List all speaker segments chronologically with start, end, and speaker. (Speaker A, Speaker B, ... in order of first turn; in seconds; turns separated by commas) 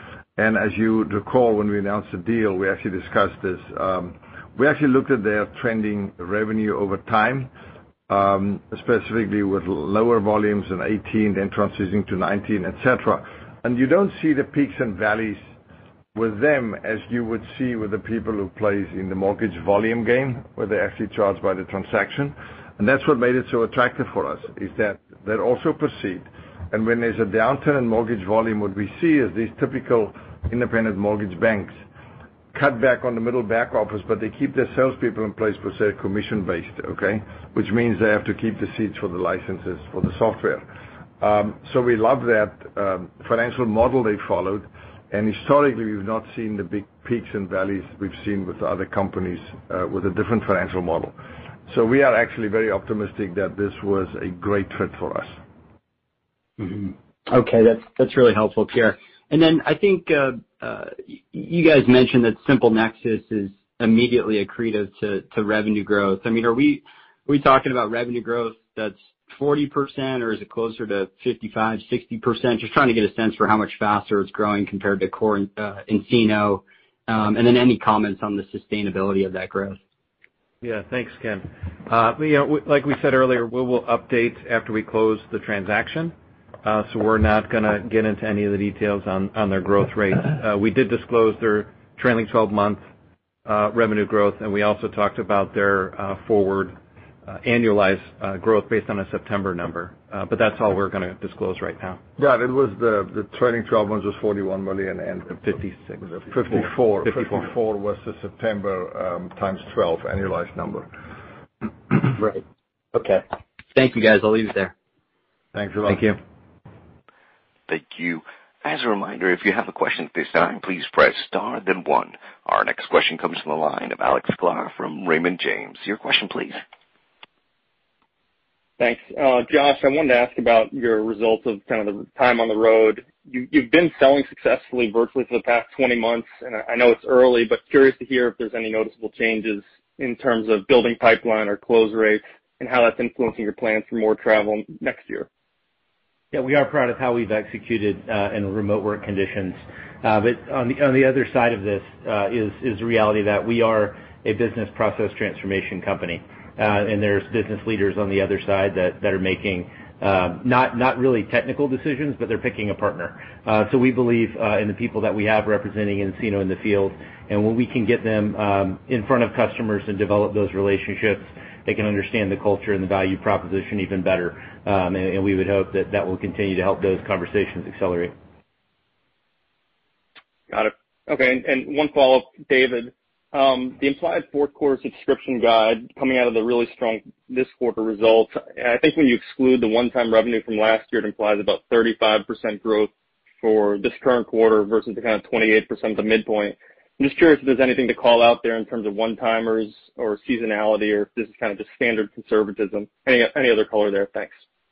Speaker A: 0.4-7.5, Speaker A: 8.1-15.5, Speaker A: 16.1-31.8, Speaker A: 32.5-40.7, Speaker A: 41.2-51.1, Speaker A: 51.7-55.3, Speaker B: 56.6-79.8, Speaker C: 80.6-92.8, Speaker C: 93.5-96.8, Speaker C: 97.3-102.0, Speaker A: 102.2-110.9, Speaker C: 105.4-107.5, Speaker B: 113.7-114.7, Speaker A: 115.5-116.2, Speaker D: 117.7-126.6, Speaker E: 128.8-145.3, Speaker F: 146.3-178.1, Speaker E: 180.5-192.9, Speaker E: 193.4-204.4